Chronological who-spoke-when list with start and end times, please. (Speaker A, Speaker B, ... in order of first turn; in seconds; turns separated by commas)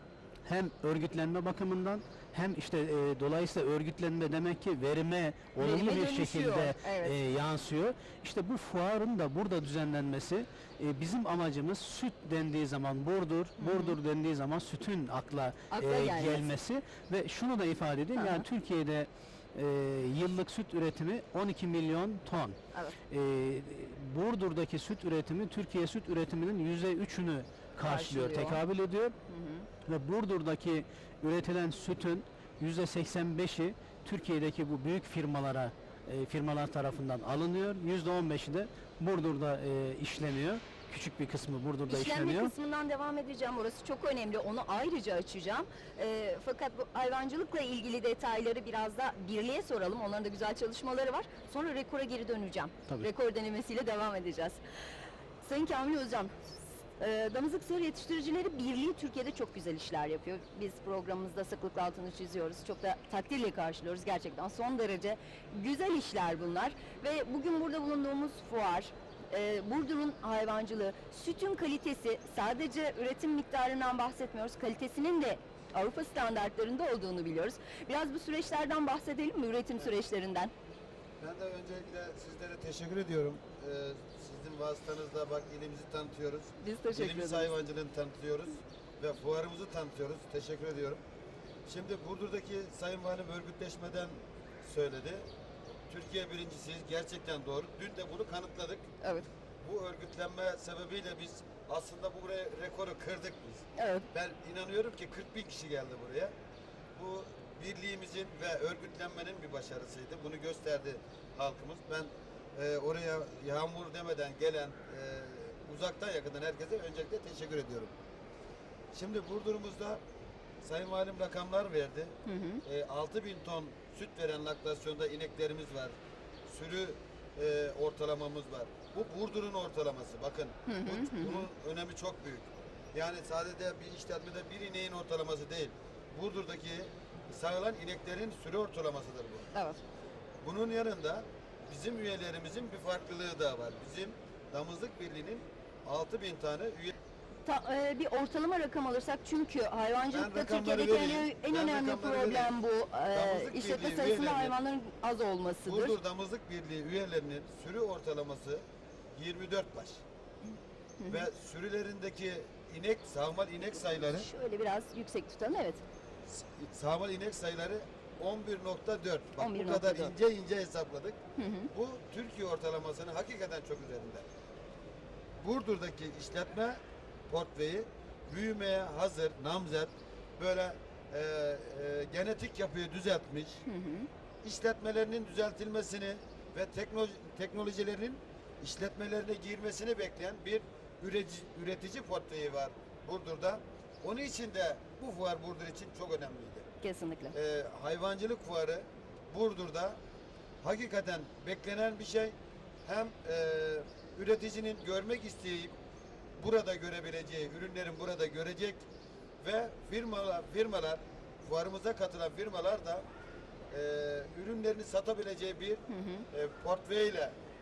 Speaker A: 0.5-29.2, Speaker B: 5.6-7.2, Speaker B: 13.6-14.0, Speaker B: 15.7-16.5, Speaker B: 18.2-18.5, Speaker B: 27.8-28.6, Speaker B: 29.3-29.7, Speaker A: 29.8-42.5, Speaker B: 41.9-54.6, Speaker B: 55.4-80.5, Speaker C: 81.2-91.0, Speaker B: 86.6-87.5, Speaker C: 91.7-95.3, Speaker C: 95.9-98.9, Speaker B: 99.0-99.3, Speaker C: 99.6-106.3, Speaker B: 103.8-104.1, Speaker C: 107.0-117.9, Speaker C: 118.9-120.0, Speaker C: 120.6-139.5, Speaker B: 122.3-122.6, Speaker B: 130.7-131.5, Speaker B: 139.5-139.8, Speaker C: 140.4-146.9, Speaker B: 147.4-156.0, Speaker C: 150.1-152.6, Speaker C: 153.1-154.6, Speaker C: 155.6-158.7, Speaker C: 159.2-160.0, Speaker B: 161.0-161.3, Speaker C: 161.1-164.3, Speaker B: 163.7-165.8, Speaker C: 166.3-174.3, Speaker B: 169.4-170.2, Speaker B: 171.4-171.7, Speaker C: 175.4-183.6, Speaker B: 183.7-184.1, Speaker C: 184.4-196.7, Speaker B: 196.8-197.3, Speaker C: 197.3-200.0, Speaker C: 200.6-205.8, Speaker C: 206.4-208.9, Speaker C: 209.4-213.1, Speaker C: 213.7-217.4, Speaker B: 215.9-216.3